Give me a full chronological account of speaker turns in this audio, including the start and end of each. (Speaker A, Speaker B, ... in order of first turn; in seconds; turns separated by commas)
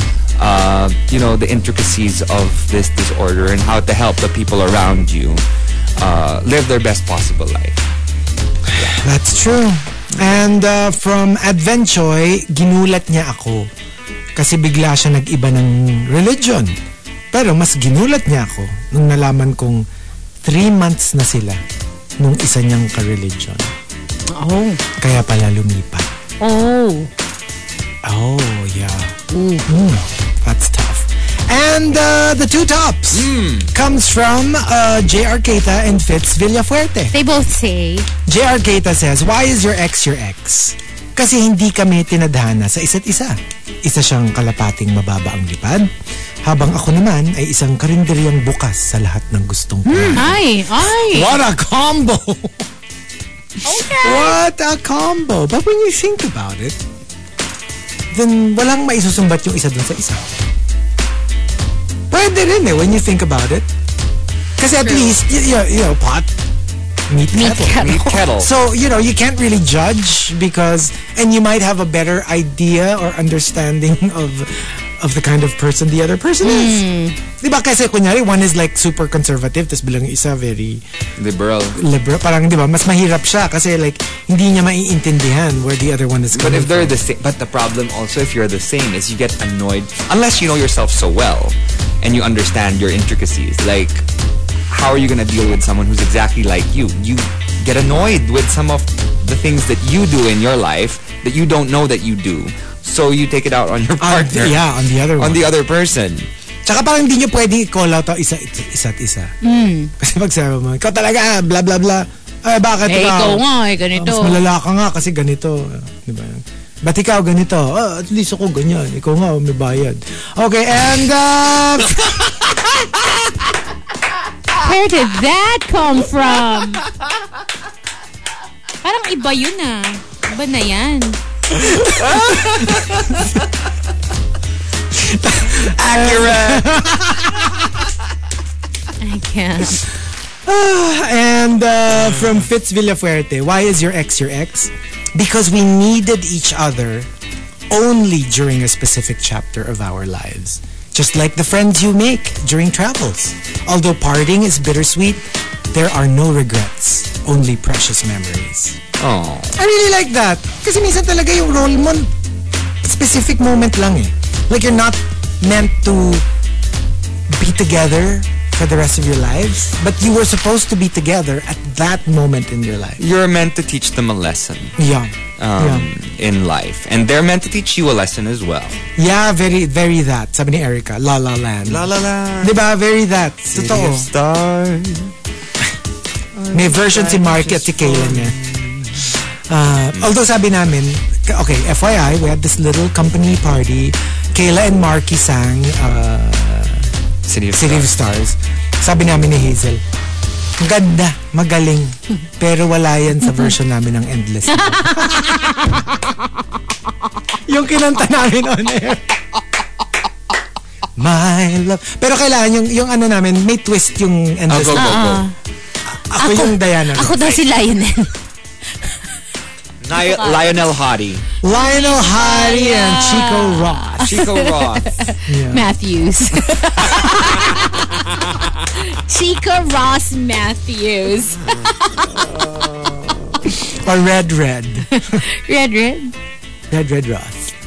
Speaker A: 0.4-5.4, Speaker A: 6.0-7.8, Speaker B: 8.7-13.7, Speaker B: 14.4-16.7, Speaker B: 17.3-19.8, Speaker B: 20.4-21.6, Speaker B: 22.2-23.7, Speaker C: 24.3-24.8, Speaker B: 25.0-26.1, Speaker C: 26.4-27.1, Speaker B: 28.1-29.2, Speaker C: 29.3-29.7, Speaker B: 29.7-37.1, Speaker A: 33.1-33.7, Speaker C: 37.1-38.1, Speaker B: 38.3-45.9, Speaker B: 46.5-52.7, Speaker A: 49.9-50.2, Speaker C: 50.1-51.4, Speaker C: 53.6-54.4, Speaker B: 53.7-56.8, Speaker B: 58.1-60.3, Speaker B: 62.1-63.7, Speaker B: 64.6-66.3, Speaker C: 64.8-65.1, Speaker B: 67.1-76.8, Speaker C: 67.3-68.2, Speaker A: 67.8-68.5, Speaker C: 76.4-77.2, Speaker B: 77.4-80.8, Speaker A: 81.2-81.8, Speaker B: 81.8-87.0, Speaker A: 86.3-94.0, Speaker A: 94.7-104.7, Speaker B: 104.0-105.5, Speaker A: 105.2-106.3, Speaker B: 106.7-109.3, Speaker C: 109.4-109.9, Speaker B: 110.0-113.4, Speaker C: 112.9-114.4, Speaker B: 114.0-123.1, Speaker C: 124.6-126.8, Speaker C: 128.8-131.2, Speaker B: 131.6-132.9, Speaker A: 131.8-133.3, Speaker B: 134.9-137.7, Speaker A: 135.6-136.8, Speaker C: 139.0-139.8, Speaker B: 140.5-147.1, Speaker B: 147.7-158.8, Speaker A: 159.0-159.6, Speaker B: 159.6-162.1, Speaker B: 162.8-166.3, Speaker B: 167.3-173.0, Speaker A: 173.0-174.8, Speaker B: 174.8-175.9, Speaker A: 175.4-178.8, Speaker B: 179.0-181.9, Speaker A: 181.7-182.6, Speaker B: 182.4-184.1, Speaker A: 183.5-185.1, Speaker A: 186.4-189.2, Speaker B: 186.5-188.3, Speaker B: 189.5-196.9, Speaker A: 197.2-197.9, Speaker B: 197.5-199.8, Speaker B: 200.6-205.8, Speaker C: 204.5-205.8, Speaker B: 207.5-209.2, Speaker B: 211.0-215.0, Speaker A: 214.5-215.3, Speaker C: 214.8-215.3, Speaker B: 215.9-217.4, Speaker C: 216.2-218.1, Speaker A: 219.8-221.2, Speaker C: 219.9-220.6, Speaker B: 221.4-224.2, Speaker C: 221.5-228.0, Speaker A: 224.0-225.1, Speaker B: 225.3-225.6, Speaker C: 228.7-232.1, Speaker A: 232.1-233.2, Speaker B: 233.6-235.2, Speaker C: 234.9-236.1, Speaker B: 236.7-237.5